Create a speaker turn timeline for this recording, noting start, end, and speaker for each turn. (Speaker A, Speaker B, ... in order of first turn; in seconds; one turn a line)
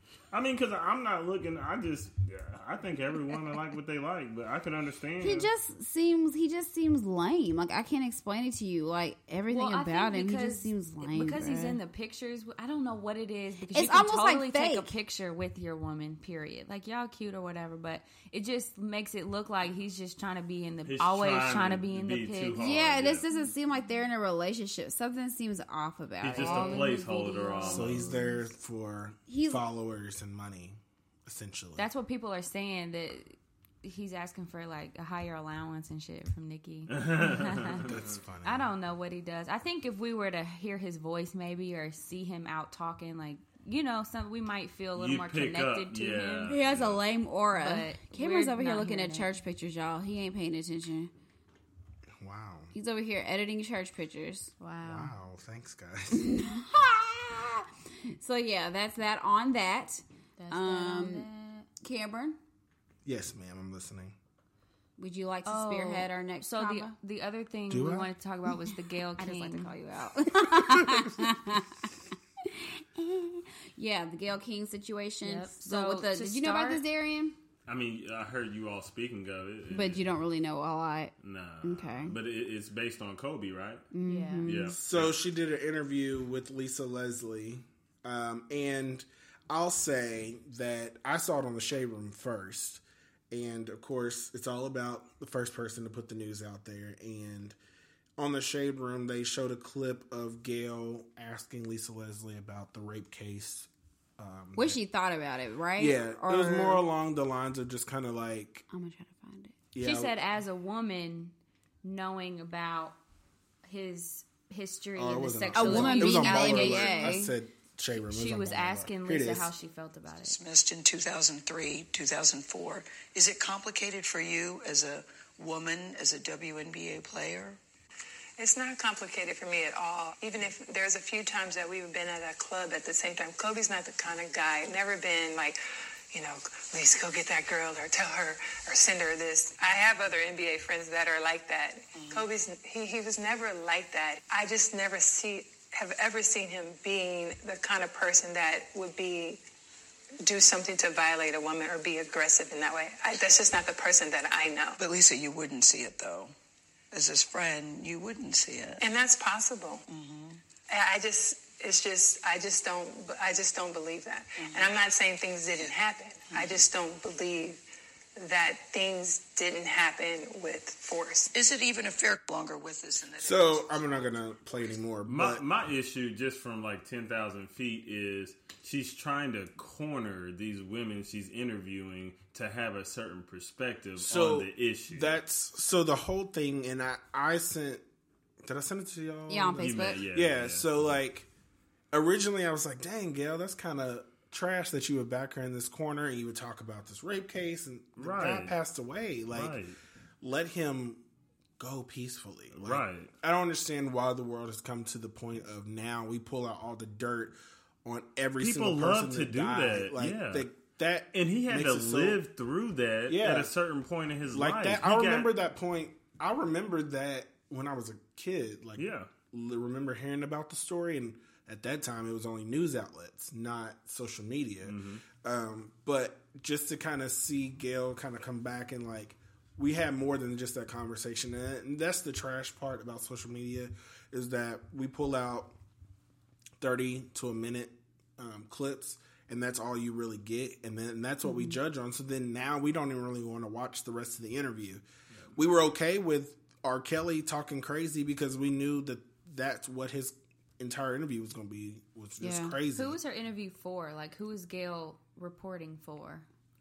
Speaker A: 0.3-5.5
Speaker B: 5.2-11.8
Speaker C: 9.5-22.6
Speaker B: 13.7-14.9
Speaker A: 20.9-23.2
Speaker B: 22.6-28.2
Speaker A: 26.2-28.1
Speaker C: 26.2-28.4
Speaker D: 27.6-31.9
Speaker B: 29.3-29.6
Speaker C: 31.8-37.8
Speaker A: 36.9-37.8
Speaker D: 37.7-38.7
Speaker C: 38.4-46.5
Speaker A: 45.0-47.0
Speaker B: 46.5-51.1
Speaker C: 47.5-49.3
Speaker D: 52.2-52.7
Speaker B: 52.7-54.5
Speaker C: 54.6-55.1
Speaker D: 54.8-56.2
Speaker B: 56.1-61.3
Speaker C: 60.4-61.7
Speaker B: 61.8-62.4
Speaker D: 63.0-64.2
Speaker B: 65.0-66.9
Speaker C: 65.4-69.7
Speaker D: 67.7-68.1
Speaker B: 69.2-71.7
Speaker D: 70.7-71.0
Speaker B: 72.4-77.4
Speaker C: 75.2-76.8
Speaker A: 77.7-80.0
Speaker B: 79.7-82.1
Speaker A: 81.2-83.8
Speaker B: 83.9-84.7
Speaker C: 84.0-84.5
Speaker A: 84.4-85.2
Speaker D: 84.7-97.5
Speaker D: 98.2-104.8
Speaker B: 104.5-106.8
Speaker D: 105.8-108.6
Speaker B: 108.7-109.6
Speaker D: 109.7-110.1
Speaker C: 109.8-113.0
Speaker C: 113.6-117.3
Speaker D: 115.0-119.5
Speaker B: 115.5-117.2
Speaker C: 118.0-120.4
Speaker E: 120.2-127.6
Speaker F: 128.4-135.6
Speaker F: 136.1-149.4
Speaker E: 141.9-142.2
Speaker F: 150.2-154.8
Speaker E: 154.8-156.3
Speaker E: 156.9-158.8
Speaker F: 158.8-159.8
Speaker E: 159.9-160.4
Speaker F: 160.7-167.6
Speaker E: 164.4-164.7
Speaker E: 166.3-166.6
Speaker F: 168.2-171.3
Speaker E: 171.3-174.1
Speaker D: 173.2-175.4
Speaker A: 175.1-185.2
Speaker D: 184.0-187.8
Speaker D: 188.4-191.3
Speaker B: 189.3-190.0
Speaker A: 189.6-190.7
Speaker D: 191.9-199.6
Speaker A: 198.0-198.5
Speaker A: 199.3-199.8
Speaker D: 200.2-201.0
Speaker D: 201.6-212.2
Speaker A: 202.5-203.1
Speaker A: 208.4-210.4
Speaker A: 211.1-215.3
Speaker D: 213.1-213.5
Speaker D: 214.3-235.5
Speaker A: 218.8-219.1
Speaker A: 224.6-225.0
Speaker D: 236.6-244.8
Speaker D: 245.3-253.0
Speaker B: 252.2-252.5
Speaker C: 252.7-256.2